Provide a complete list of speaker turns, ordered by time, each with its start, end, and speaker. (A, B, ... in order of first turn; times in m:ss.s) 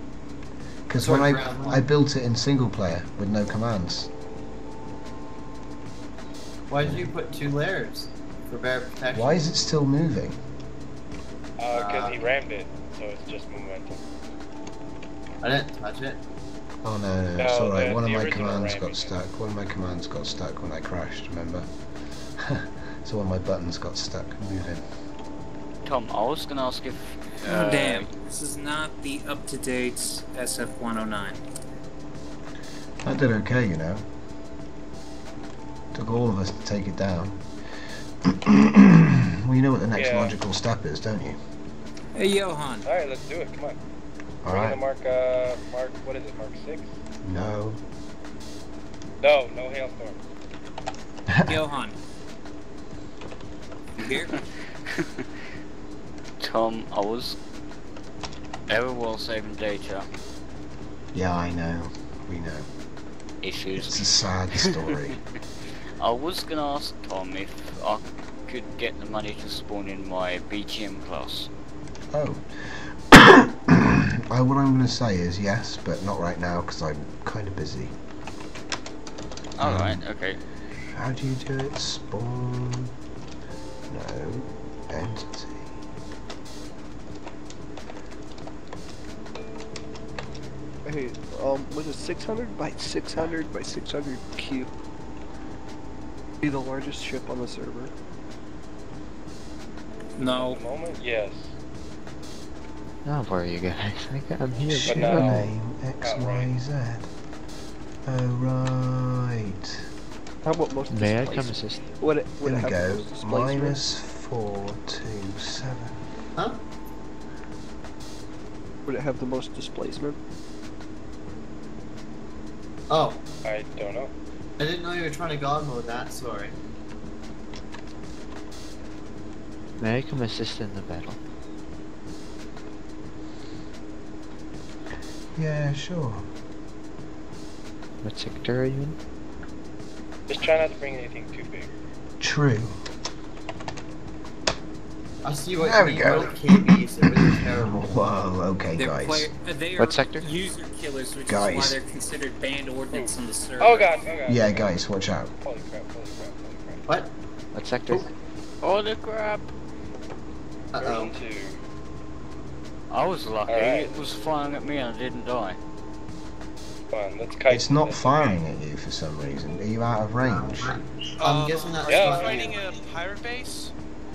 0:00.9-0:04.1 A
0:01.0-0:01.8 B
0:06.7-0:09.5 B
0:06.8-0:07.1 A
0:09.1-0:10.4 A
0:11.6-0:14.0 C
0:11.7-0:12.3 B
0:15.4-0:16.2 B
0:16.8-0:21.7 A
0:17.4-0:19.1 C
0:22.4-0:24.8 A
0:25.8-0:28.1 D
0:27.4-0:31.4 E
0:33.0-0:34.0 A
0:35.9-0:37.4 A
0:38.3-0:41.4 A
0:40.0-0:40.4 C
0:42.2-0:42.8 E
0:42.8-0:43.8 C
0:44.4-0:44.8 A
0:44.5-0:47.0 C
0:47.2-0:47.8 A
0:49.2-0:50.2 C
0:51.3-0:51.6 A
0:51.4-0:52.0 E
0:54.0-0:54.4 E
0:54.0-0:54.4 D
0:56.4-0:57.4 D
0:58.7-1:00.1 D
1:01.1-1:02.7 A
1:03.4-1:04.7 D
1:03.8-1:05.2 A
1:06.0-1:11.5 D
1:12.1-1:17.9 A
1:19.6-1:20.4 D
1:19.6-1:20.0 A
1:20.9-1:22.9 A
1:23.9-1:25.8 A
1:30.8-1:34.7 F
1:36.4-1:37.9 F
1:40.2-1:40.6 E
1:40.3-1:41.6 C
1:43.0-1:45.5 G
1:44.7-1:47.1 A
1:44.8-1:46.5 C
1:48.0-1:49.8 A
1:50.4-1:53.8 F
1:50.9-1:51.9 G
1:52.4-1:56.0 A
1:58.9-2:00.2 F
2:02.9-2:03.2 B
2:03.4-2:04.1 C
2:04.6-2:06.6 B
2:09.8-2:11.2 G
2:15.4-2:16.3 A
2:18.0-2:19.0 G
2:20.3-2:21.7 C
2:22.2-2:22.8 A
2:25.2-2:27.8 B
2:25.6-2:26.4 A
2:27.3-2:29.3 A
2:28.8-2:34.0 E
2:29.8-2:30.3 G
2:31.3-2:31.8 A
2:32.9-2:34.8 C
2:34.3-2:35.3 A
2:35.4-2:36.8 C
2:36.9-2:37.1 B
2:37.5-2:38.1 G
2:38.6-2:39.4 D
2:40.7-2:41.2 B
2:40.8-2:41.6 C
2:42.9-2:45.6 D
2:43.5-2:44.0 C
2:46.9-2:48.4 C
2:47.5-2:50.8 A
2:50.2-2:52.6 B
2:51.2-2:53.7 H
2:51.9-2:52.5 C